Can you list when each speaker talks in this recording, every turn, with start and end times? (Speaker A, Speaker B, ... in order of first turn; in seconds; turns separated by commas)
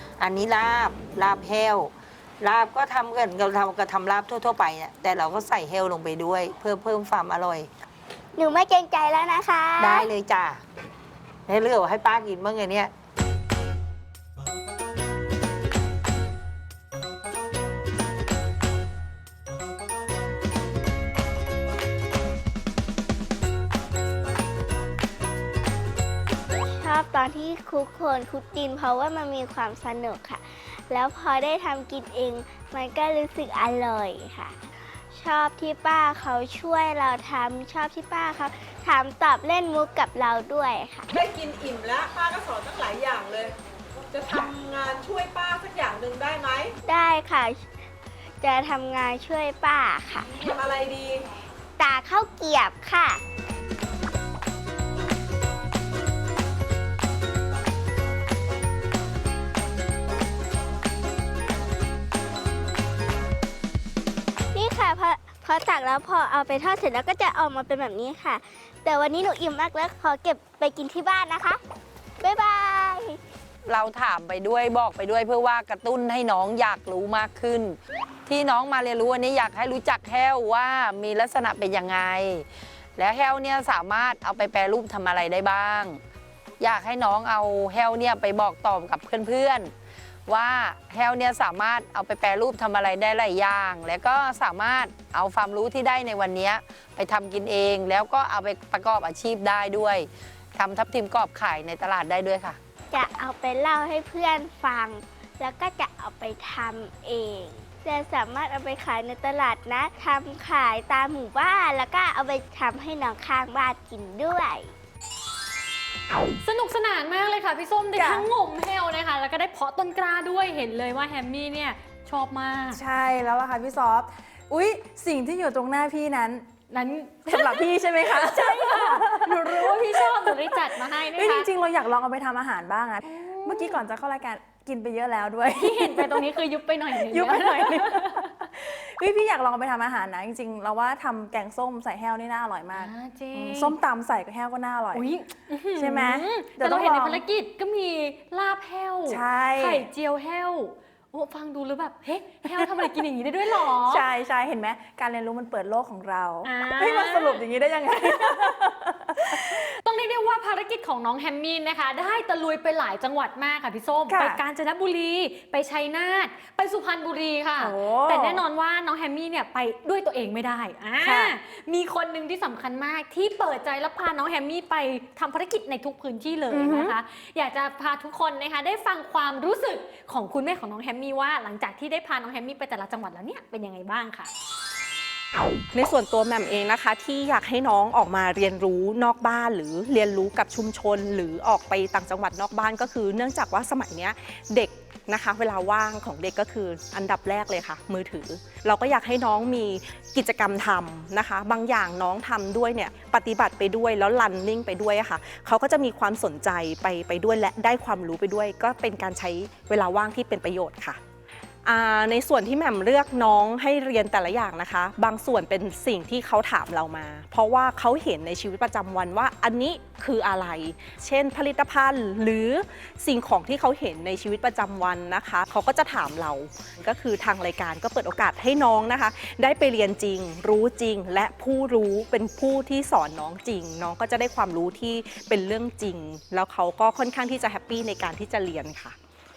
Speaker A: 0.2-7.7, Speaker B: 8.4-10.1, Speaker A: 9.8-10.6, Speaker A: 11.5-12.9, Speaker B: 26.7-41.1, Speaker C: 41.1-43.5, Speaker C: 44.1-46.7, Speaker B: 46.9-47.6, Speaker B: 48.4-50.5, Speaker C: 50.4-51.2, Speaker B: 51.8-53.2, Speaker B: 64.5-71.6, Speaker B: 72.2-73.2, Speaker A: 73.7-86.0, Speaker A: 86.6-89.7, Speaker A: 90.3-102.6, Speaker B: 102.9-114.7, Speaker D: 116.4-122.8, Speaker E: 118.0-118.3, Speaker E: 122.7-126.5, Speaker D: 126.7-131.5, Speaker E: 127.3-136.4, Speaker D: 133.1-133.8, Speaker D: 135.6-138.3, Speaker E: 136.9-145.1, Speaker D: 142.8-143.8, Speaker D: 144.9-154.0, Speaker E: 145.8-147.2, Speaker E: 149.1-149.9, Speaker E: 152.6-152.9, Speaker E: 153.5-159.8, Speaker D: 156.4-157.4, Speaker D: 158.0-158.5, Speaker D: 159.2-184.3, Speaker E: 164.1-164.4, Speaker E: 167.6-168.4, Speaker E: 171.0-171.3, Speaker E: 176.5-177.0, Speaker F: 185.7-211.0, Speaker F: 211.7-238.9